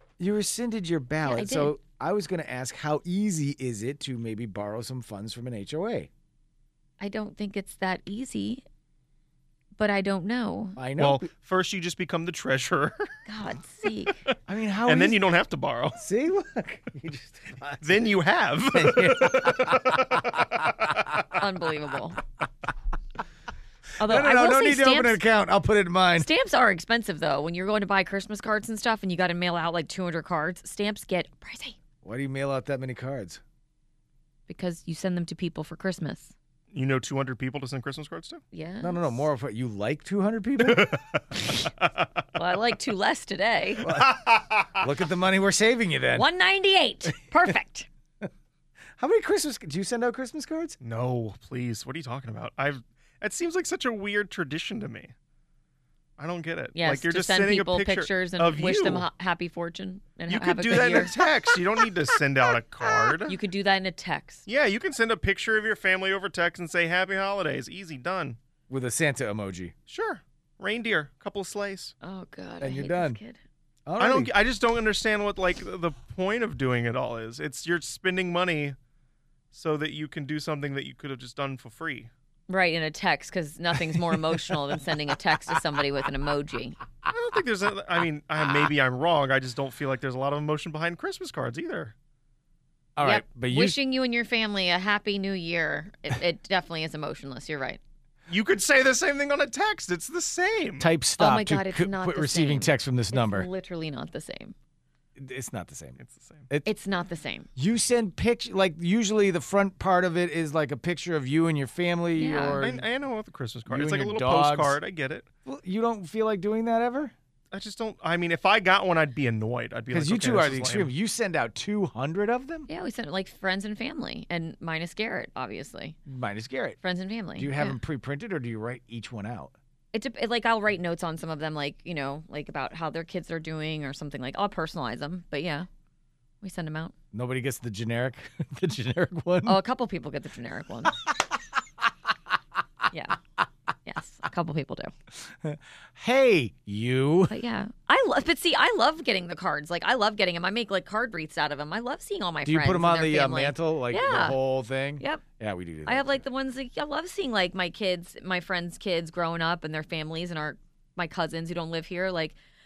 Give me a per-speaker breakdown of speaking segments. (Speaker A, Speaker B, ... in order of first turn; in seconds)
Speaker A: 0.2-6.1, 10.8-11.2, 14.5-15.2, 16.0-18.0, 18.7-20.4, 24.0-26.3, 32.0-33.4, 38.8-41.0, 43.8-44.2, 44.7-46.3, 49.0-50.8, 68.7-69.7, 72.6-73.2, 73.9-74.3, 93.0-93.8, 100.8-103.5, 105.2-106.7, 107.6-112.9, 113.7-114.8, 115.5-117.1, 119.9-122.7, 126.1-126.8, 127.3-129.5, 137.1-139.6, 145.3-147.4, 152.4-156.2
Speaker B: 1.2-1.8, 7.0-8.6, 9.8-10.8, 13.3-14.2, 21.3-22.2, 24.0-25.2, 26.2-31.8, 34.5-36.3, 38.5-39.2, 42.4-43.9, 46.1-47.9, 56.8-61.1, 63.3-64.4, 72.0-73.4, 82.5-86.8, 93.0-97.8, 101.2-104.5, 106.7-107.5, 112.2-112.7, 122.7-126.0, 126.8-127.8, 129.9-135.7, 136.4-136.9, 139.4-141.1, 142.9-143.2, 143.9-144.9, 147.3-154.4, 154.9-155.2, 155.9-162.4
Speaker C: 11.0-13.2, 14.3-16.0, 17.8-20.4, 36.7-38.4, 40.6-41.2, 43.9-44.8, 50.8-55.1, 56.2-59.1, 60.3-63.4, 64.5-68.4, 69.9-71.9, 74.0-78.8, 79.5-82.1, 87.1-91.9, 98.3-100.9, 106.0-106.5, 112.6-115.3, 117.5-120.9